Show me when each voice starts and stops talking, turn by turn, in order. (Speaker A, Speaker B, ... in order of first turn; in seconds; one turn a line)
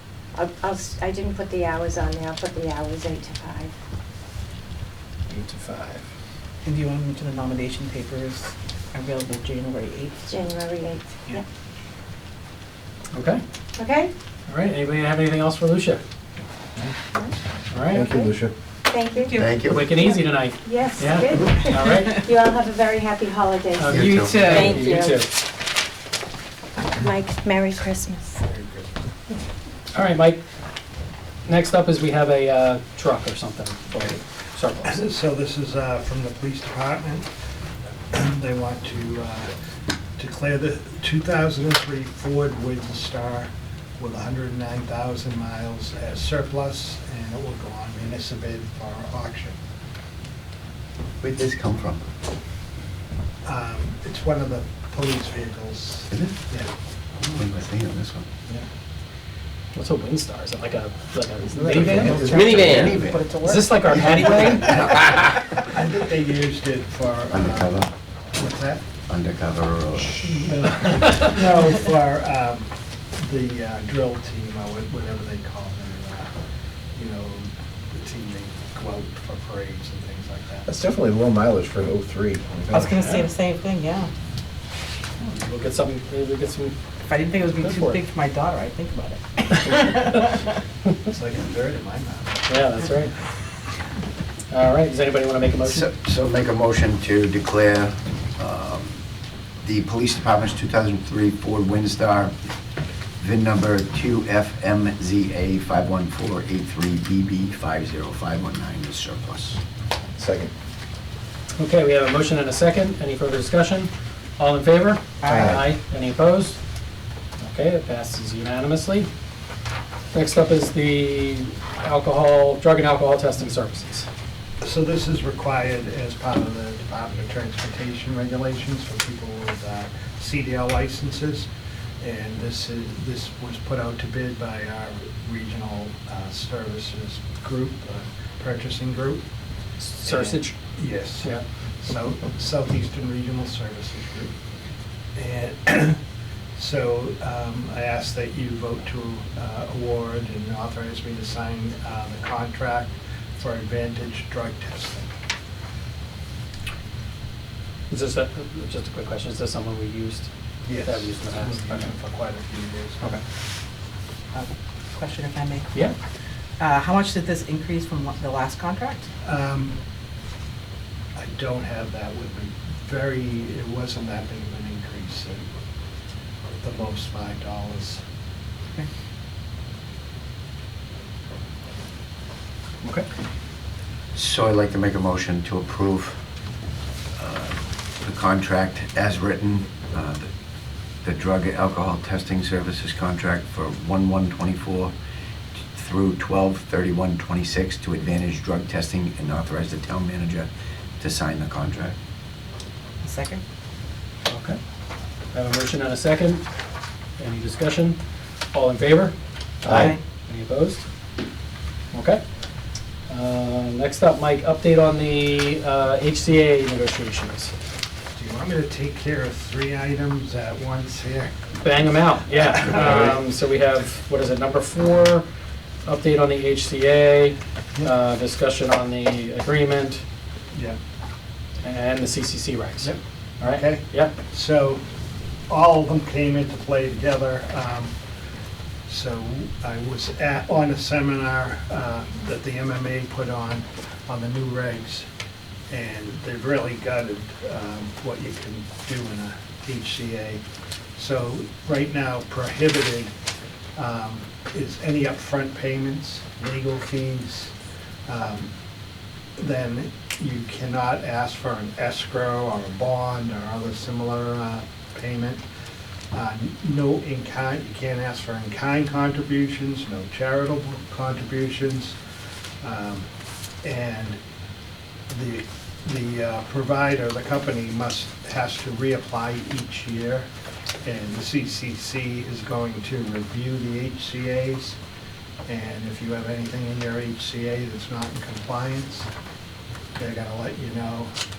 Speaker A: 0.3-3.7
Speaker B: 5.3-6.0
Speaker C: 6.6-10.3
Speaker A: 10.2-11.4
Speaker B: 13.1-13.4
Speaker A: 13.8-14.1
Speaker B: 14.5-16.0
Speaker B: 17.7-18.1
Speaker D: 17.9-18.5
Speaker A: 18.9-19.4
Speaker E: 19.3-19.9
Speaker B: 19.7-22.3
Speaker A: 20.6-25.2
Speaker B: 23.8-25.3
Speaker E: 23.9-24.5
Speaker C: 23.9-25.0
Speaker A: 26.9-28.4
Speaker F: 28.4-29.0
Speaker B: 29.9-30.4
Speaker B: 31.4-35.0
Speaker F: 34.8-37.3
Speaker F: 38.1-39.5
Speaker F: 40.2-49.5
Speaker E: 51.2-52.0
Speaker F: 53.4-56.7
Speaker E: 56.1-56.3
Speaker E: 57.2-58.2
Speaker B: 59.7-62.7
Speaker D: 61.5-62.4
Speaker E: 61.7-63.3
Speaker C: 61.7-65.2
Speaker B: 63.4-64.9
Speaker F: 64.5-67.8
Speaker E: 67.3-67.9
Speaker F: 68.3-68.8
Speaker E: 69.1-70.4
Speaker F: 70.2-76.3
Speaker B: 70.5-71.3
Speaker F: 76.9-80.7
Speaker D: 80.7-83.0
Speaker C: 82.7-84.1
Speaker B: 83.0-83.3
Speaker B: 85.2-86.7
Speaker C: 87.0-90.4
Speaker B: 87.6-88.0
Speaker F: 91.0-92.5
Speaker B: 92.5-93.1
Speaker B: 94.5-95.8
Speaker E: 95.6-99.0
Speaker E: 99.6-102.3
Speaker E: 103.2-109.6
Speaker D: 110.2-110.5
Speaker B: 111.6-116.6
Speaker C: 115.2-115.5
Speaker D: 115.3-115.6
Speaker B: 117.4-119.1
Speaker B: 120.1-124.1
Speaker F: 124.6-131.5
Speaker F: 132.0-139.2
Speaker B: 139.8-140.5
Speaker F: 140.0-144.3
Speaker F: 145.2-146.0
Speaker F: 146.6-155.1
Speaker B: 157.9-160.3
Speaker F: 160.6-163.2
Speaker B: 160.8-161.9
Speaker C: 164.3-165.9
Speaker C: 166.6-169.1
Speaker F: 169.2-169.8
Speaker F: 171.2-175.4
Speaker F: 176.6-178.0
Speaker E: 184.1-186.2
Speaker E: 187.2-190.3
Speaker E: 191.0-194.9
Speaker E: 195.7-201.9
Speaker C: 203.0-203.4
Speaker B: 204.3-204.6
Speaker B: 205.3-206.4
Speaker B: 207.2-208.0
Speaker B: 208.5-210.8
Speaker C: 209.6-210.0
Speaker B: 211.9-212.2
Speaker B: 213.1-217.5
Speaker F: 218.1-221.3
Speaker B: 221.6-225.2
Speaker F: 222.4-223.2
Speaker B: 225.8-230.0
Speaker B: 231.6-234.1
Speaker F: 232.8-234.8
Speaker F: 235.5-237.9
Speaker F: 238.9-245.1
Speaker F: 245.7-250.4
Speaker F: 251.0-253.1
Speaker F: 253.8-257.5
Speaker F: 258.1-258.5
Speaker F: 259.4-265.4
Speaker F: 266.1-271.9
Speaker F: 272.6-273.1
Speaker F: 273.6-274.2
Speaker F: 275.1-280.3
Speaker F: 280.8-284.8
Speaker F: 285.4-289.1
Speaker F: 289.9-291.1